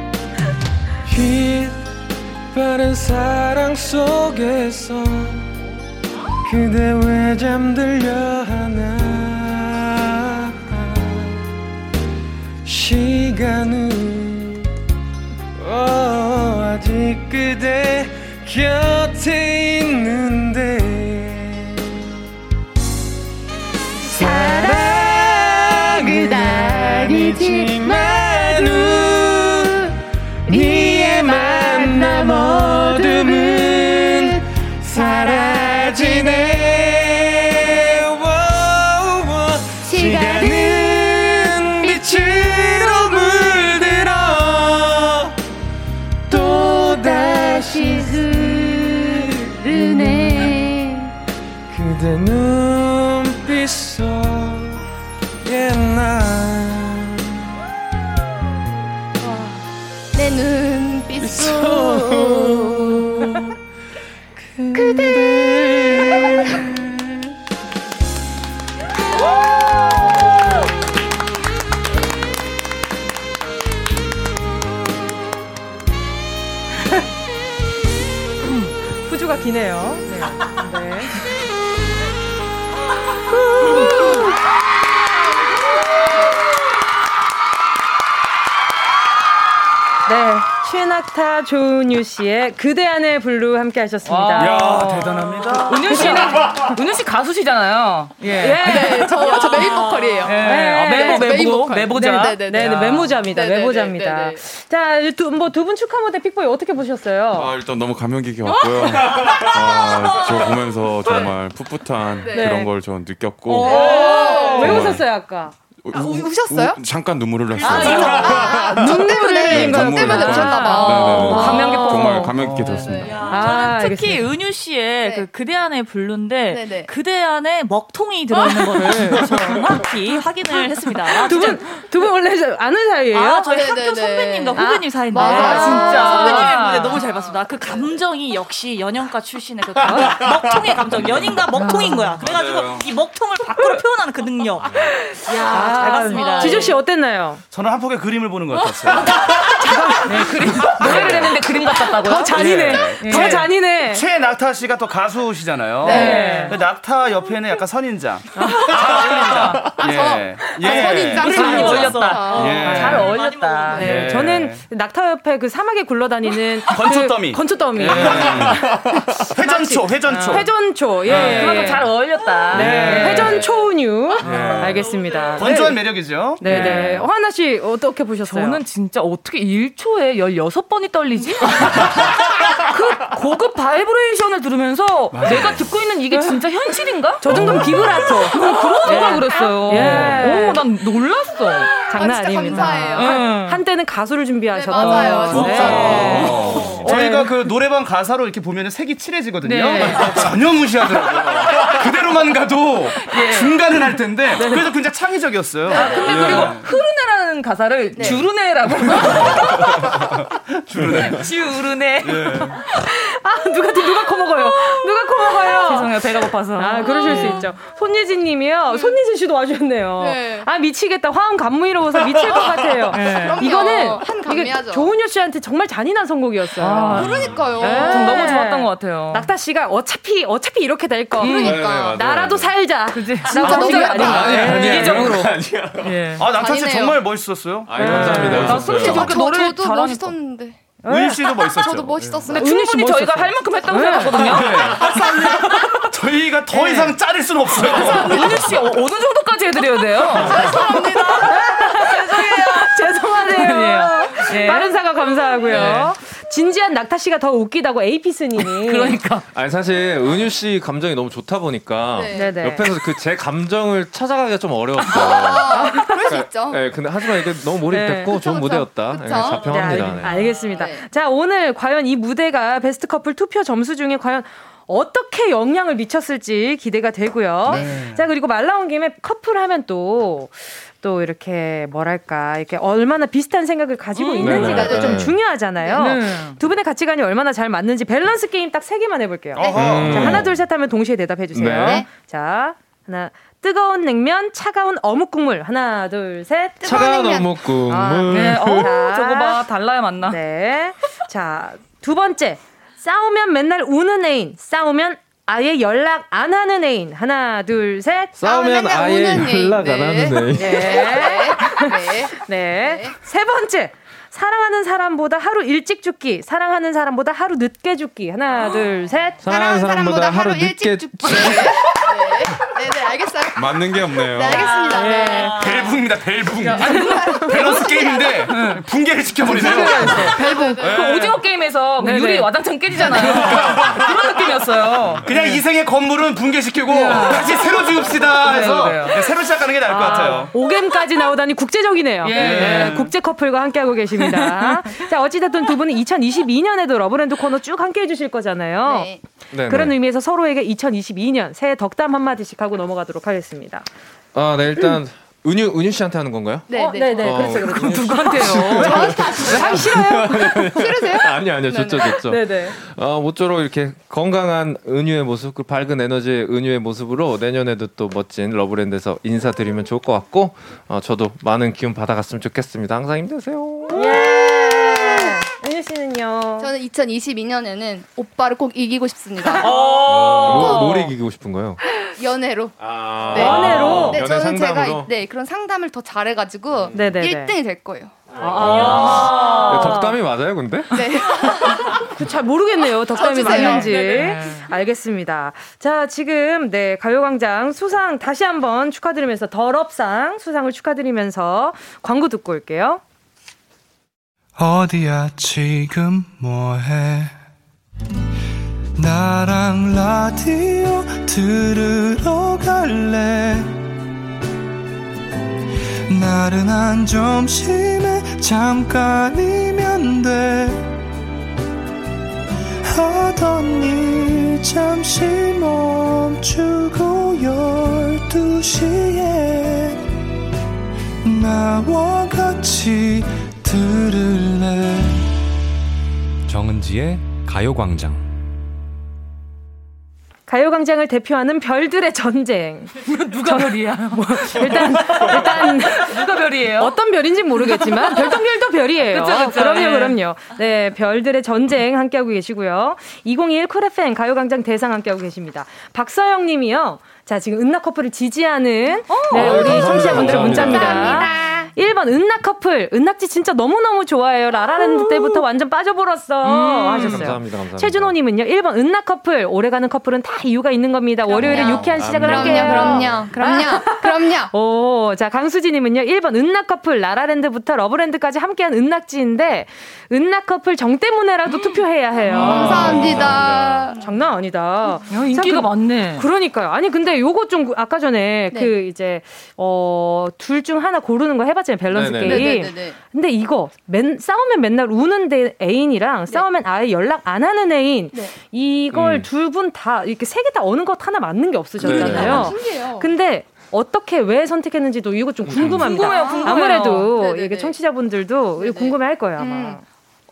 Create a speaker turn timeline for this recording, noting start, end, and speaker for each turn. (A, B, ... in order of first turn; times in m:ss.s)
0:01.0-0:01.9 A
0:02.5-0:05.5 A
0:06.4-0:11.4 A
0:12.6-0:14.7 A
0:15.5-0:22.1 A
0:24.0-0:29.9 A
0:24.0-0:29.7 B
0:30.5-0:36.5 B
0:30.5-0:45.3 A
0:39.8-0:43.6 B
0:46.3-0:50.7 A
0:46.3-0:51.1 B
0:51.7-0:54.8 A
0:55.4-0:57.5 A
0:59.2-0:59.6 B
1:00.1-1:03.4 B
1:01.2-1:03.6 A
1:04.4-1:07.2 A
1:04.7-1:06.7 B
1:09.8-1:10.2 A
1:19.0-1:21.1 C
1:23.6-1:24.1 C
1:30.1-1:34.7 C
1:34.0-1:43.2 D
1:34.4-1:36.2 E
1:35.9-1:36.4 C
1:38.4-1:39.4 C
1:38.6-1:44.4 B
1:40.4-1:41.5 C
1:42.5-1:47.5 C
1:47.3-1:53.8 F
1:48.5-1:49.4 B
1:52.2-1:52.5 B
1:52.3-1:52.7 C
1:53.5-1:54.9 B
1:53.6-1:54.6 D
1:53.6-1:55.5 C
1:54.6-1:55.0 F
1:55.8-2:03.2 F
1:55.9-1:56.8 B
1:57.6-1:58.0 G
1:57.6-2:01.9 B
1:57.6-2:02.3 C
2:01.2-2:02.2 D
2:02.6-2:03.2 B
2:03.0-2:11.6 G
2:03.3-2:04.3 C
2:05.0-2:05.3 B
2:06.5-2:06.9 B
2:11.2-2:13.5 C
2:13.1-2:26.8 G
2:13.5-2:16.8 B
2:14.6-2:16.6 C
2:15.2-2:16.9 D
2:19.8-2:20.2 C
2:21.0-2:21.4 F
2:21.6-2:22.1 D
2:21.7-2:21.9 C
2:22.2-2:22.9 F
2:25.3-2:26.7 D
2:25.5-2:27.4 C
2:27.5-2:29.1 E
2:29.6-2:31.3 C
2:29.9-2:33.5 D
2:30.6-2:31.3 E
2:32.0-2:34.0 C
2:32.3-2:43.1 E
2:35.8-2:36.6 C
2:35.8-2:36.5 B
2:35.8-2:36.6 D
2:38.4-2:38.7 C
2:38.4-2:39.8 D
2:39.7-2:42.9 B
2:40.6-2:44.1 D
2:41.2-2:41.9 C
2:42.5-2:43.1 C
2:43.1-2:43.8 G
2:43.7-2:51.9 C
2:43.8-2:44.4 A
2:43.8-2:44.6 E
2:46.7-2:48.6 E
2:47.9-2:48.6 F
2:48.0-2:48.6 A
2:49.3-2:50.5 E
2:50.2-2:50.4 D
2:51.0-2:53.5 D
2:52.5-2:55.8 C
2:52.5-2:53.3 A
2:54.2-2:54.8 A
2:54.2-2:55.6 D
2:55.4-2:56.5 E
2:56.4-2:58.6 C
2:56.4-2:57.0 D
2:58.3-3:07.6 D
3:05.1-3:05.6 E
3:07.2-3:10.6 C
3:08.2-3:11.8 D
3:09.0-3:09.5 B
3:11.8-3:13.2 B
3:11.9-3:17.3 C
3:12.4-3:13.6 D
3:14.5-3:16.8 B
3:14.7-3:17.2 D
3:15.3-3:26.6 E
3:19.4-3:20.3 D
3:19.8-3:20.1 C
3:23.0-3:23.6 D
3:25.7-3:29.9 D
3:26.0-3:26.5 A
3:27.9-3:28.3 B
3:30.6-3:31.3 E
3:30.9-3:32.6 D
3:32.0-3:32.6 E
3:32.7-3:36.0 C
3:35.4-3:37.5 D
3:36.5-3:55.1 C
3:38.7-3:39.0 B
3:40.0-3:40.5 B
3:42.9-3:43.6 D
3:43.1-3:44.9 B
3:46.6-3:49.3 D
3:46.9-3:48.4 B
3:51.2-3:51.6 D
3:51.2-3:52.0 B
3:51.2-3:52.6 A
3:52.9-3:56.3 D
3:53.3-3:54.6 B
3:53.3-3:56.0 A
3:56.2-3:57.8 E
3:56.3-3:57.0 B
3:57.7-3:59.2 A
3:57.8-3:58.6 C
3:57.8-4:00.1 D
3:58.5-4:00.6 B
4:00.8-4:01.2 C
4:00.9-4:02.2 E
4:01.4-4:02.5 B
4:02.3-4:05.8 D
4:02.3-4:04.5 C
4:04.1-4:08.5 E
4:06.5-4:07.0 D
4:07.5-4:14.8 D
4:10.2-4:12.5 B
4:11.2-4:19.0 C
4:15.4-4:16.0 D
4:18.4-4:19.2 D
4:19.3-4:30.2 A
4:21.9-4:22.4 B
4:22.1-4:22.7 C
4:24.8-4:26.6 B
4:25.5-4:26.0 C
4:27.7-4:28.2 C
4:28.0-4:30.8 B
4:29.3-4:56.6 C
4:37.5-4:38.0 E
4:44.0-4:44.7 D
4:44.2-4:45.2 A
4:44.2-4:45.1 B
4:45.7-4:46.4 D
4:49.4-4:50.2 E
4:49.4-4:49.9 B
4:49.5-4:50.4 A
4:51.3-4:51.8 A
4:51.6-4:51.9 B
4:56.6-4:57.4 B
4:56.6-4:58.7 A
4:57.7-4:59.4 C
4:58.1-5:00.2 D
5:00.0-5:08.1 C
5:08.2-5:11.1 A
5:08.2-5:12.9 B
5:10.3-5:19.2 C
5:19.2-5:21.6 A
5:19.2-5:25.4 B
5:23.4-5:24.5 F
5:24.4-5:25.1 G
5:24.7-5:25.3 C
5:24.9-5:25.3 D
5:25.4-5:31.2 E
5:26.4-5:27.7 D
5:26.5-5:28.3 B
5:26.7-5:27.3 C
5:28.2-5:28.6 D
5:29.2-5:35.4 D
5:29.7-5:30.7 B
5:31.8-5:32.3 C
5:32.9-5:33.9 E
5:35.0-5:40.3 E
5:36.7-5:39.1 D
5:39.7-5:48.9 C
5:39.8-5:40.1 D
5:42.0-5:42.9 D
5:42.1-5:42.8 E
5:44.0-5:44.7 D
5:48.6-5:49.0 B
5:49.3-5:49.7 A
5:49.5-5:53.7 C
5:54.1-6:14.0 A
5:56.5-5:57.5 B
5:56.5-5:58.2 C
5:57.5-5:58.8 D
5:58.6-6:01.8 B
5:59.3-6:00.1 C
6:01.9-6:02.6 C
6:13.7-6:16.5 C
6:13.7-6:15.2 B
6:16.4-6:20.9 B
6:19.4-6:20.9 D
6:19.8-6:21.6 A
6:22.0-6:28.0 B
6:22.6-6:24.9 A
6:23.1-6:24.0 C
6:26.5-6:27.0 A
6:26.7-6:27.3 C
6:28.2-6:30.8 A
6:28.2-6:30.0 C
6:28.4-6:29.8 D
6:30.7-6:31.8 B
6:31.4-6:42.8 C
6:32.9-6:33.9 B
6:33.2-6:34.5 D
6:44.4-6:47.2 H
6:48.8-6:53.6 H
6:55.9-7:00.7 H
7:02.6-7:09.9 H
7:11.0-7:15.1 H
7:16.3-7:18.0 H
7:20.3-7:26.0 C
7:22.8-7:26.8 D
7:26.5-8:03.2 C
7:27.4-7:28.1 D
7:28.9-7:30.0 D
7:38.9-7:40.4 D
7:39.1-7:41.1 A
7:40.4-7:41.5 B
7:46.2-7:47.0 D
7:46.6-7:47.9 A
7:51.1-7:54.3 B
7:51.2-7:53.1 A
8:02.1-8:03.9 B
8:02.5-8:03.7 F
8:02.8-8:03.1 A
8:03.7-8:29.6 C
8:04.9-8:06.1 D
8:11.7-8:12.4 A
8:12.0-8:12.8 B
8:18.7-8:19.1 A
8:21.6-8:22.3 A
8:21.6-8:22.9 B
8:25.2-8:25.6 A
8:25.4-8:26.9 D
8:25.7-8:27.6 B
8:28.4-8:29.6 B